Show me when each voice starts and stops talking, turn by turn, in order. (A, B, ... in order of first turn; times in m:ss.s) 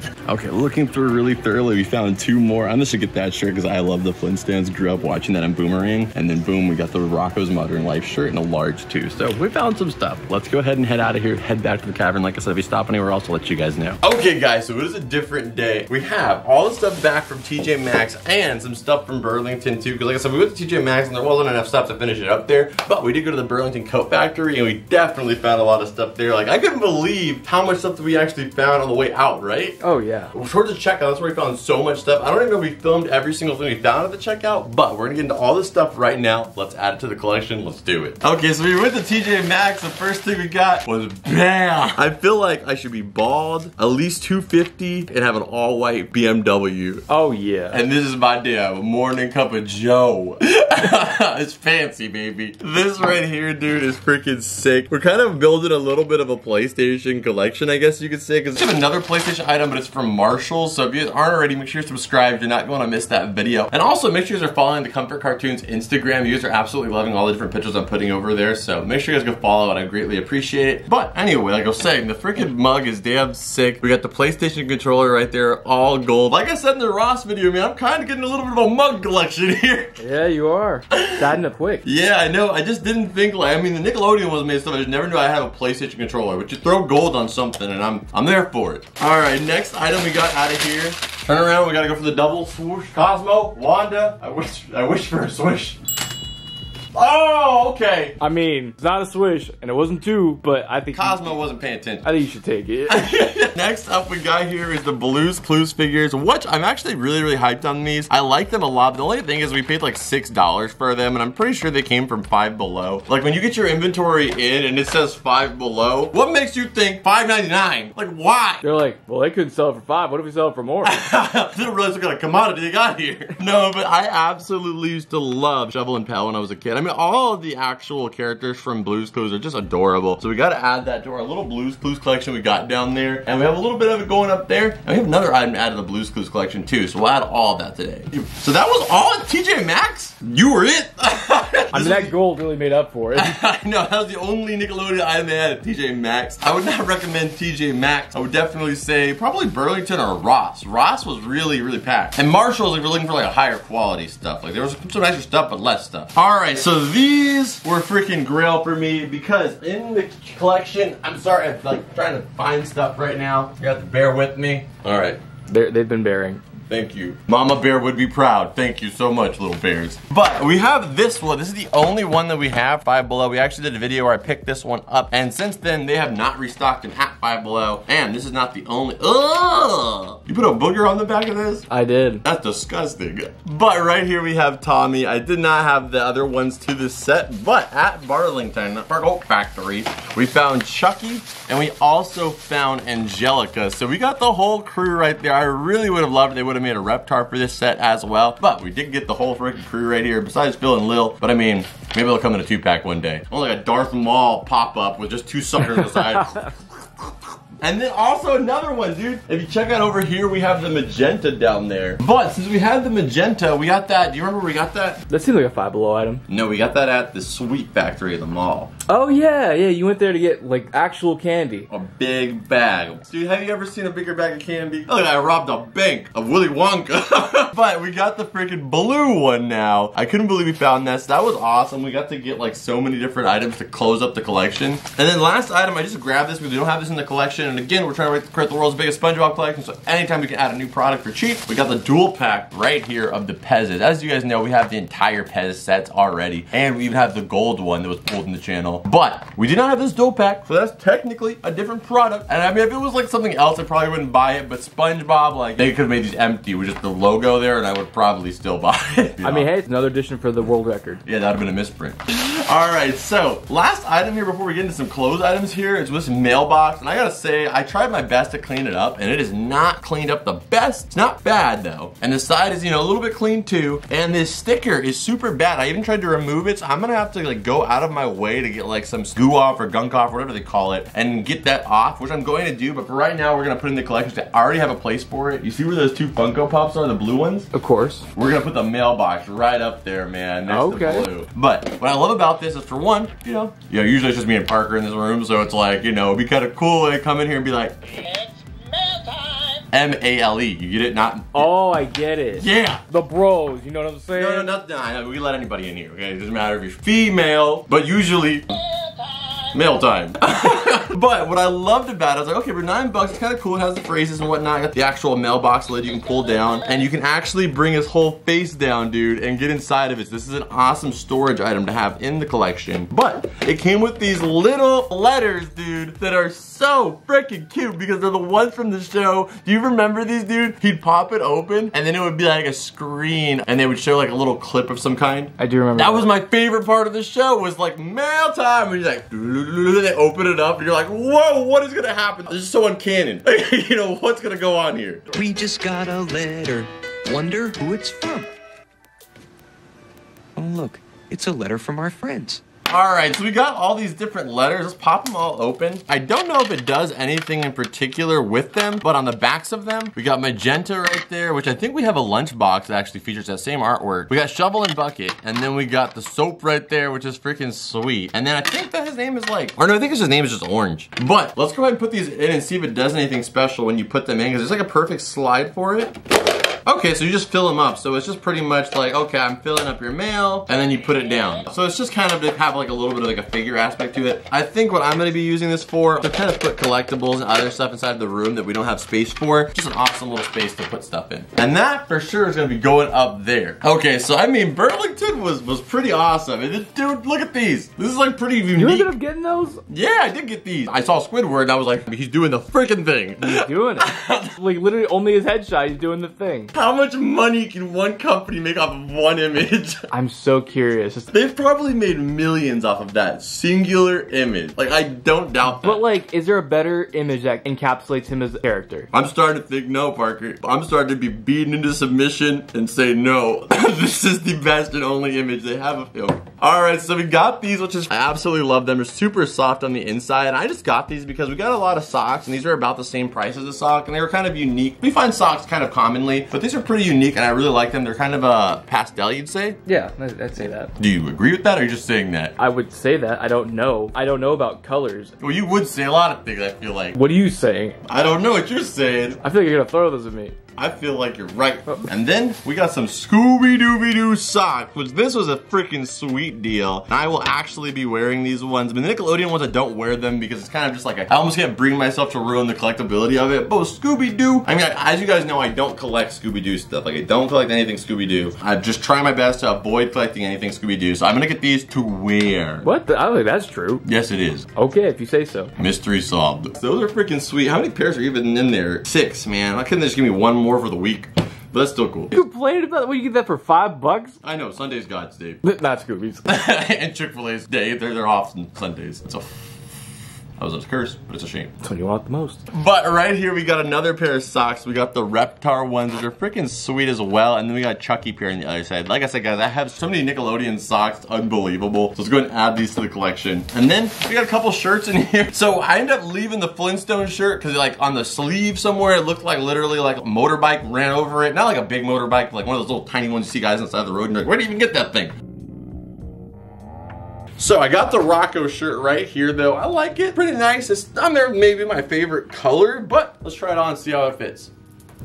0:00.2-0:29.8 A
0:29.8-0:30.3 B
0:30.3-0:47.0 A
0:47.1-0:47.8 B
0:47.7-1:20.0 A
1:20.0-1:21.8 B
1:20.9-1:21.3 A
1:21.8-1:35.8 A
1:36.9-1:38.2 A
1:38.2-1:41.3 B
1:40.9-1:42.0 A
1:42.0-1:43.1 B
1:42.9-1:58.6 A
1:58.6-2:00.9 B
2:00.8-2:22.1 A
2:21.7-2:23.4 B
2:23.1-2:45.2 A
2:45.5-2:46.4 B
2:46.7-3:01.6 A
3:01.7-3:02.2 B
3:02.2-3:27.1 A
3:26.0-3:26.4 B
3:27.6-3:35.0 A
3:35.1-3:36.2 B
3:36.3-3:38.7 A
3:38.9-3:41.7 B
3:41.7-4:19.5 A
4:19.2-4:21.0 B
4:21.0-4:47.5 A
4:47.5-4:48.1 B
4:48.1-4:58.1 A
4:50.5-4:51.1 B
4:59.7-5:01.5 A
5:01.3-5:04.5 B
5:02.3-5:02.8 A
5:04.1-5:08.5 A
5:09.4-5:45.0 A
5:35.4-5:36.1 B
5:45.1-5:48.3 C
5:50.4-5:52.4 C
5:52.7-6:15.9 A
6:16.6-6:38.9 A
6:38.5-6:39.6 B
6:39.7-6:44.4 A
6:43.2-6:46.5 B
6:46.5-6:49.8 A
6:49.9-6:51.1 B
6:51.1-6:55.8 A
6:55.4-6:58.9 B
6:58.9-7:19.6 A
7:19.6-7:20.7 B
7:20.8-7:22.3 A
7:22.4-7:25.1 B
7:25.2-7:27.0 A
7:26.9-7:27.8 B
7:27.9-7:29.2 A
7:29.2-7:30.4 B
7:30.6-7:52.7 A
7:52.6-7:53.8 B
7:53.8-7:54.4 A
7:54.5-7:55.5 B
7:55.6-8:02.1 A
8:02.1-8:04.2 B
8:04.2-8:05.4 A
8:05.4-8:06.2 B
8:06.2-8:09.8 A
8:10.4-8:11.5 A
8:11.6-8:12.4 B
8:12.5-8:35.1 A
8:37.4-8:44.5 A